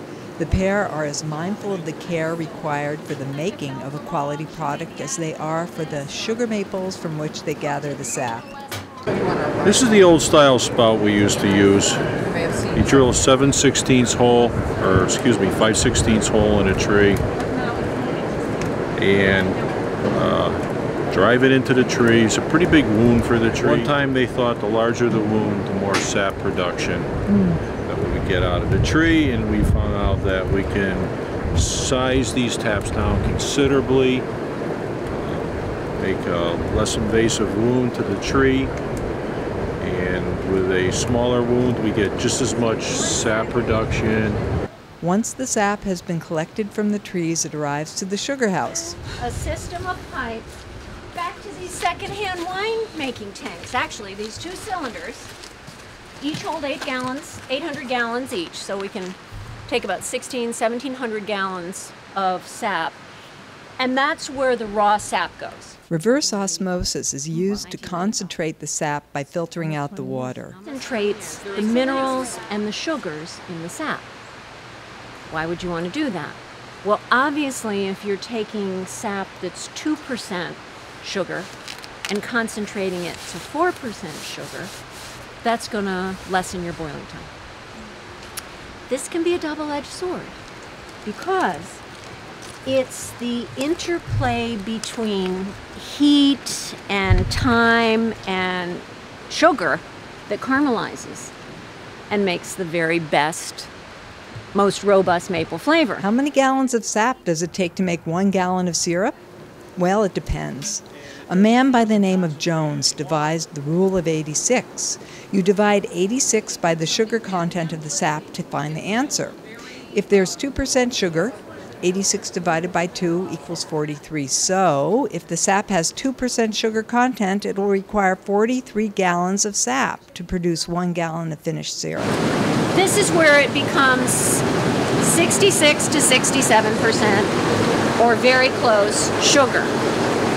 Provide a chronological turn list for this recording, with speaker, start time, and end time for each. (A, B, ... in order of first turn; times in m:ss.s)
0:00.4-0:08.6 A
0:09.6-0:12.0 B
0:12.7-0:17.2 B
0:19.0-0:20.6 B
0:21.1-0:27.1 B
0:27.3-0:27.6 A
0:27.7-0:34.2 B
0:35.1-0:38.7 B
0:39.8-0:44.4 B
0:45.0-0:49.0 A
0:49.0-0:50.5 C
0:51.1-0:55.3 C
0:56.2-1:03.0 C
1:03.8-1:05.8 C
1:05.9-1:10.6 A
1:07.7-1:08.1 C
1:10.6-1:14.1 C
1:15.3-1:21.5 C
1:22.1-1:24.7 C
1:25.4-1:27.3 C
1:28.9-1:30.4 C
1:31.0-1:31.8 C
1:32.6-1:41.3 C
1:42.1-1:43.7 C
1:44.5-1:46.0 C
1:46.0-1:49.2 A
1:49.8-1:59.4 A
1:59.9-2:12.1 A
2:12.7-2:14.4 C
2:15.0-2:17.3 C
2:18.0-2:19.7 C